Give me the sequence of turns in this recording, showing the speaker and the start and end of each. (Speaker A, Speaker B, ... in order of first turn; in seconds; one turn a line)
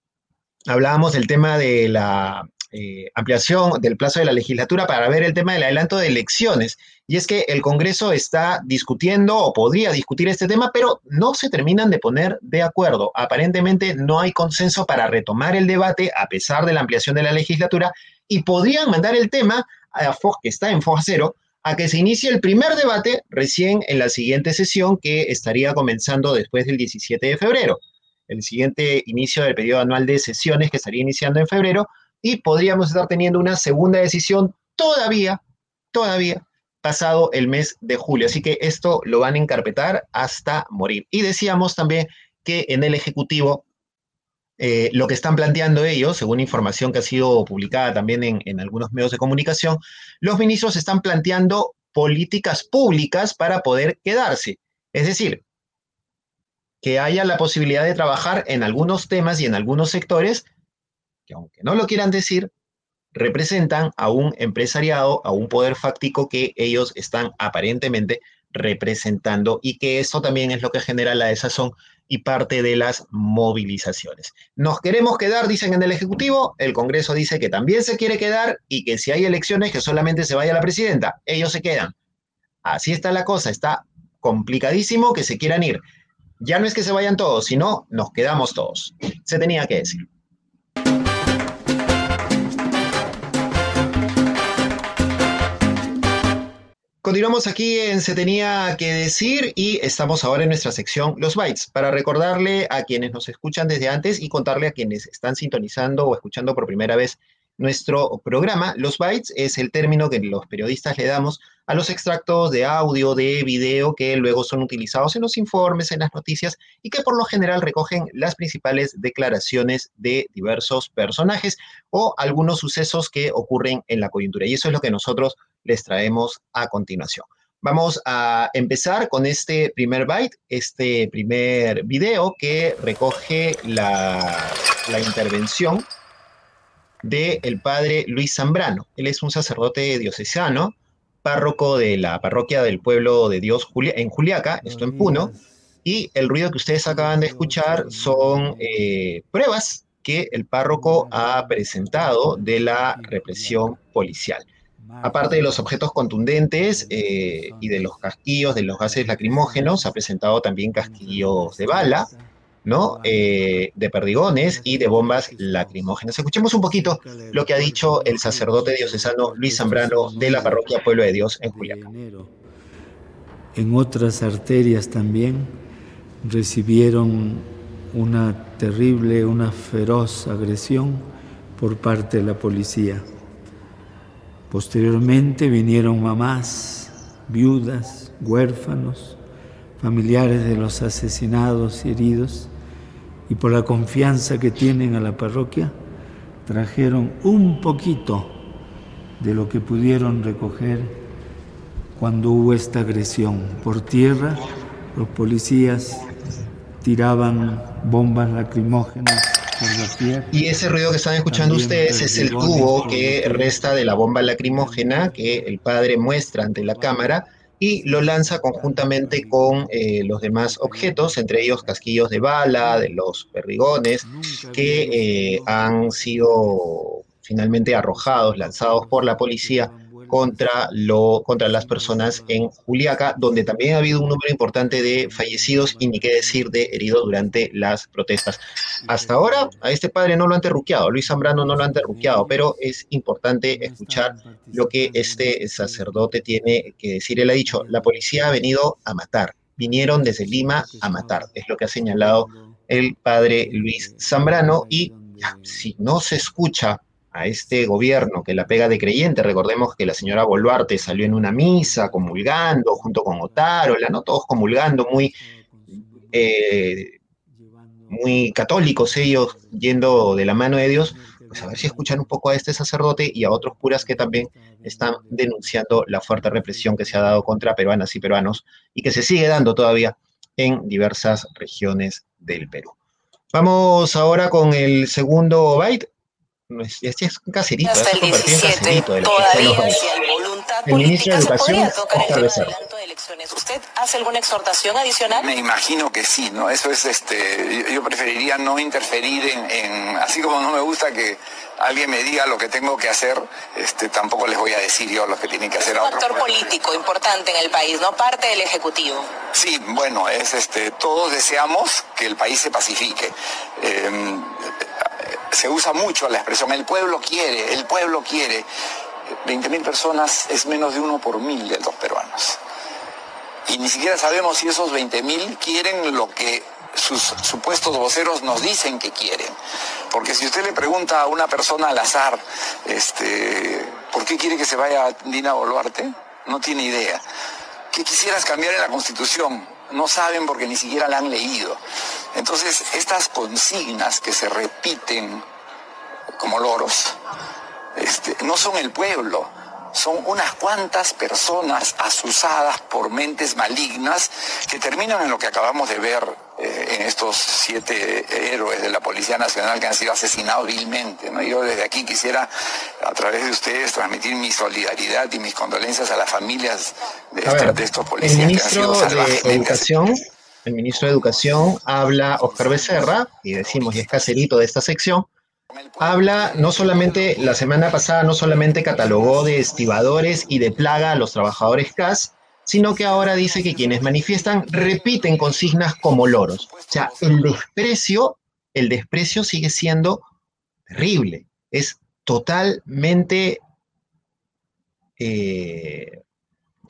Speaker A: 0.7-35.4
Speaker A: 35.9-43.6
Speaker A: 44.6-55.4
Speaker A: 56.8-60.5
Speaker A: 61.3-62.5
Speaker A: 63.1-81.9
Speaker A: 82.6-85.8
Speaker A: 86.4-90.0
Speaker A: 97.0-135.9
Speaker A: 137.0-145.3
Speaker B: 144.6-145.6
Speaker A: 145.8-154.4
Speaker B: 146.8-149.1
Speaker B: 150.6-153.8
Speaker B: 154.8-160.1
Speaker A: 155.0-162.1
Speaker B: 160.7-163.7
Speaker A: 162.6-171.8
Speaker B: 164.2-172.3
Speaker B: 173.5-175.6
Speaker B: 176.2-183.1
Speaker B: 184.5-189.2
Speaker B: 189.8-192.5
Speaker B: 193.3-195.8
Speaker B: 196.4-198.5
Speaker B: 199.2-201.0
Speaker B: 201.9-206.1
Speaker B: 206.8-210.7
Speaker A: 210.3-265.1
Speaker B: 211.2-223.0
Speaker B: 224.0-226.9
Speaker B: 227.7-237.5
Speaker B: 238.8-239.8
Speaker B: 240.9-242.6
Speaker B: 243.4-246.7
Speaker B: 247.4-248.6
Speaker B: 249.4-252.6
Speaker B: 253.3-256.2
Speaker B: 257.5-258.9
Speaker B: 260.0-277.4
Speaker A: 266.1-266.9
Speaker A: 267.9-282.7
Speaker A: 283.3-285.9
Speaker A: 286.5-289.8
Speaker C: 287.6-295.3
Speaker A: 290.6-292.5
Speaker D: 295.1-306.6
Speaker C: 305.6-309.1
Speaker D: 309.3-318.4
Speaker D: 319.2-322.4
Speaker D: 323.5-329.3
Speaker D: 329.9-337.0
Speaker D: 337.7-341.6
Speaker D: 342.1-345.2
Speaker D: 346.2-347.0
Speaker D: 347.7-362.3
Speaker D: 362.8-369.7
Speaker A: 367.2-375.1
Speaker D: 370.7-371.5
Speaker D: 372.1-374.3
Speaker D: 375.5-377.6
Speaker A: 375.8-390.0
Speaker D: 378.9-379.7
Speaker B: 379.8-381.1
Speaker D: 382.6-387.4
Speaker A: 390.7-393.4
Speaker A: 395.0-396.0